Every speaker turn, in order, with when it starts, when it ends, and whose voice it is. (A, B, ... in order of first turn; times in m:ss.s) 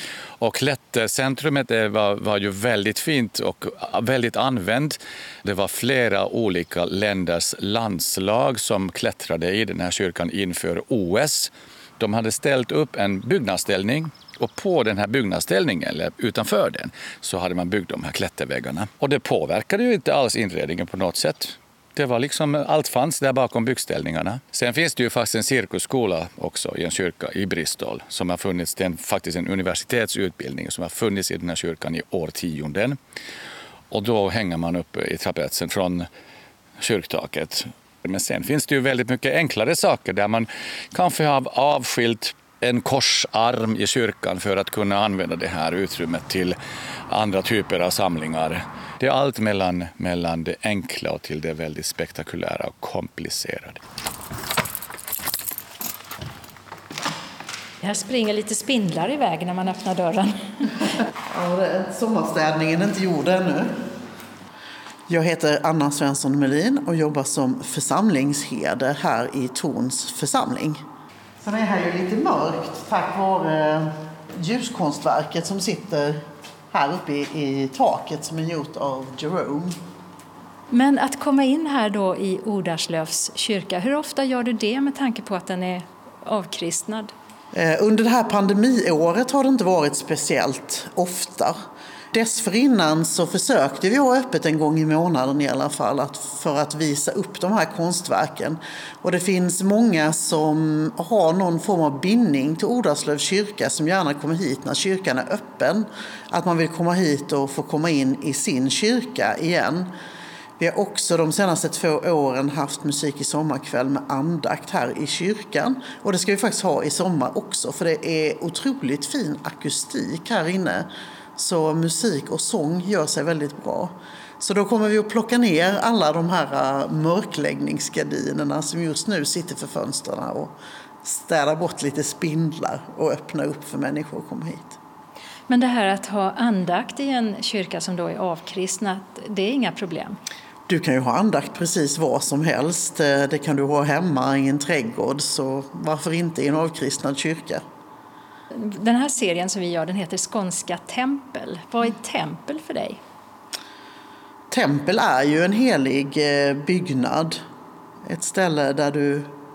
0:00.4-0:33.0 A
0:33.9-0:36.1 A
0:36.8-0:46.6 A
0:47.1-0:53.8 A
0:57.8-1:00.4 B
1:01.3-1:03.8 C
1:05.1-1:10.8 C
1:11.4-1:19.8 C
1:20.7-1:27.1 B
1:27.5-1:31.6 C
1:32.1-1:49.9 C
1:50.6-2:14.8 C
2:15.5-2:20.2 B
2:20.7-2:27.6 C
2:28.5-2:33.0 B
2:34.5-2:37.4 C
2:38.0-2:39.3 C